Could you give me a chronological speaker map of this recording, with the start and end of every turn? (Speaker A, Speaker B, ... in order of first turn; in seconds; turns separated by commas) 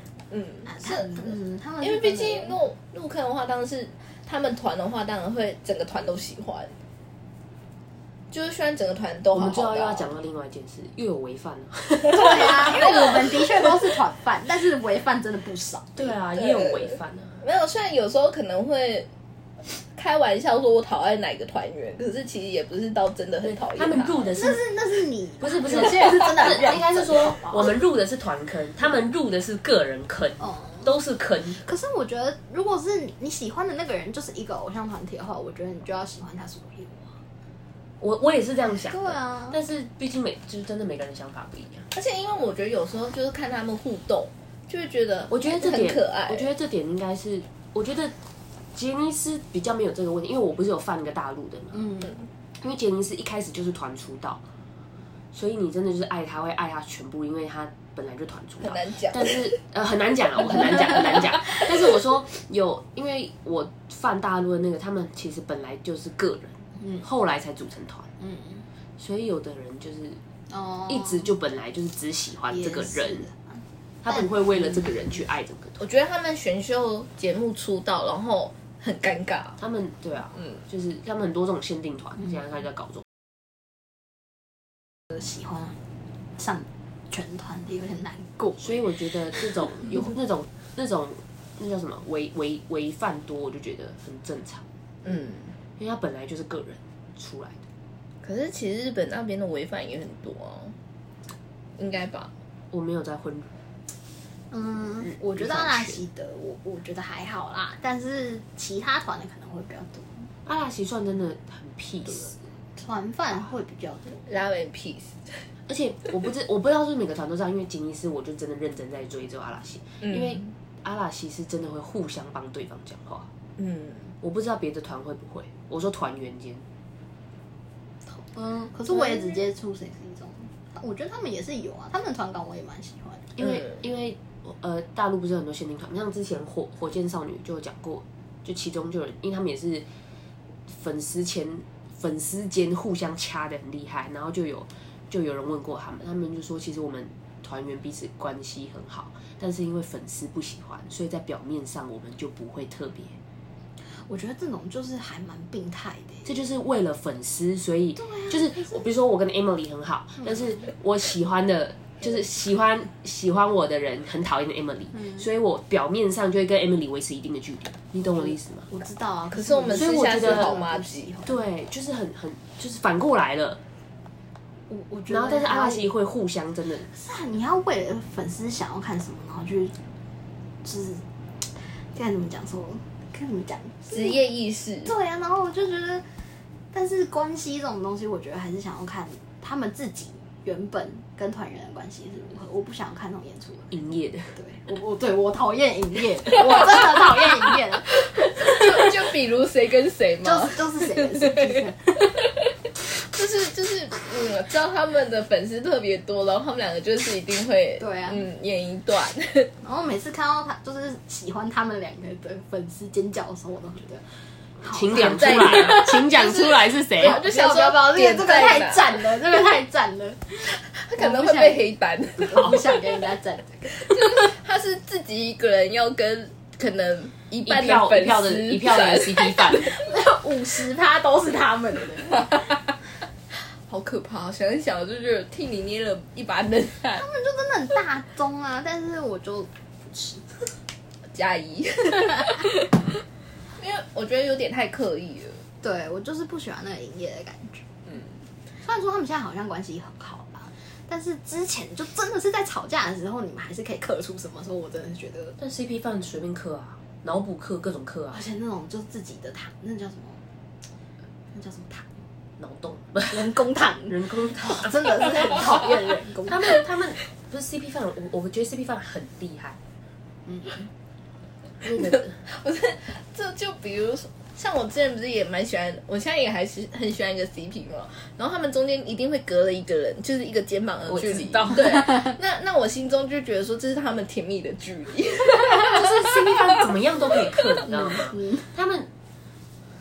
Speaker A: 0.3-6.7, Speaker B: 0.7-2.6, Speaker A: 8.3-10.1, Speaker C: 9.3-13.7, Speaker B: 12.1-16.1, Speaker C: 15.9-17.4, Speaker A: 16.3-19.1, Speaker A: 19.9-24.3, Speaker C: 23.4-24.6, Speaker B: 24.3-27.7, Speaker C: 25.4-31.6, Speaker B: 30.4-30.9, Speaker B: 31.6-37.2, Speaker C: 38.0-41.9, Speaker B: 38.9-39.6, Speaker A: 41.9-46.5, Speaker C: 45.3-48.1, Speaker C: 48.7-51.9, Speaker B: 51.7-52.1, Speaker C: 52.6-54.4, Speaker C: 55.3-68.1, Speaker A: 58.6-59.5, Speaker B: 68.2-68.7, Speaker C: 69.0-70.2, Speaker B: 70.5-71.3, Speaker C: 70.9-73.3, Speaker B: 72.5-74.8, Speaker C: 74.0-75.8, Speaker A: 75.8-79.6, Speaker C: 79.6-83.0, Speaker B: 85.1-85.8, Speaker B: 86.3-89.4, Speaker C: 88.6-94.6, Speaker A: 95.0-95.5, Speaker C: 95.8-97.6, Speaker A: 98.2-100.7, Speaker A: 101.8-102.3, Speaker C: 102.7-103.5, Speaker B: 104.5-110.3, Speaker C: 105.0-106.0, Speaker C: 110.5-112.4, Speaker B: 112.1-114.3, Speaker A: 114.2-115.4, Speaker C: 115.7-123.3, Speaker A: 120.0-120.4, Speaker A: 123.6-124.1, Speaker C: 124.2-126.6, Speaker B: 128.1-133.3, Speaker A: 128.9-129.4, Speaker C: 133.4-139.8, Speaker C: 140.7-153.2, Speaker B: 153.9-156.3, Speaker C: 156.2-168.7, Speaker B: 158.0-158.8, Speaker B: 160.2-160.6, Speaker B: 164.9-165.2, Speaker B: 168.2-171.4, Speaker A: 169.3-171.1, Speaker C: 169.7-170.5, Speaker C: 171.2-173.6, Speaker B: 174.7-175.8, Speaker C: 175.1-176.9, Speaker B: 176.9-179.8, Speaker B: 180.6-184.2, Speaker A: 183.9-184.9, Speaker B: 184.8-186.0, Speaker B: 186.7-193.8, Speaker C: 193.7-194.3, Speaker B: 194.3-198.9, Speaker A: 198.0-201.6, Speaker B: 200.2-202.2, Speaker A: 202.9-209.5, Speaker B: 207.8-208.2, Speaker B: 209.6-214.1, Speaker B: 214.6-224.2, Speaker C: 214.7-217.2, Speaker A: 214.9-219.0, Speaker A: 220.7-222.6, Speaker A: 223.8-229.7, Speaker C: 227.4-229.8, Speaker B: 229.6-232.5, Speaker A: 233.6-237.0, Speaker B: 236.9-240.5, Speaker A: 241.1-243.0, Speaker B: 242.0-242.4, Speaker A: 243.6-245.4, Speaker B: 245.6-247.6, Speaker A: 247.8-248.1, Speaker B: 248.6-255.3, Speaker C: 255.4-258.2, Speaker B: 258.1-260.2, Speaker B: 261.3-262.0, Speaker C: 262.4-269.6, Speaker B: 263.1-266.6, Speaker B: 270.3-270.7, Speaker C: 271.6-272.1, Speaker A: 271.8-286.7, Speaker C: 280.9-281.7, Speaker B: 285.4-286.6, Speaker C: 285.7-288.9, Speaker A: 287.2-287.7, Speaker B: 287.6-288.5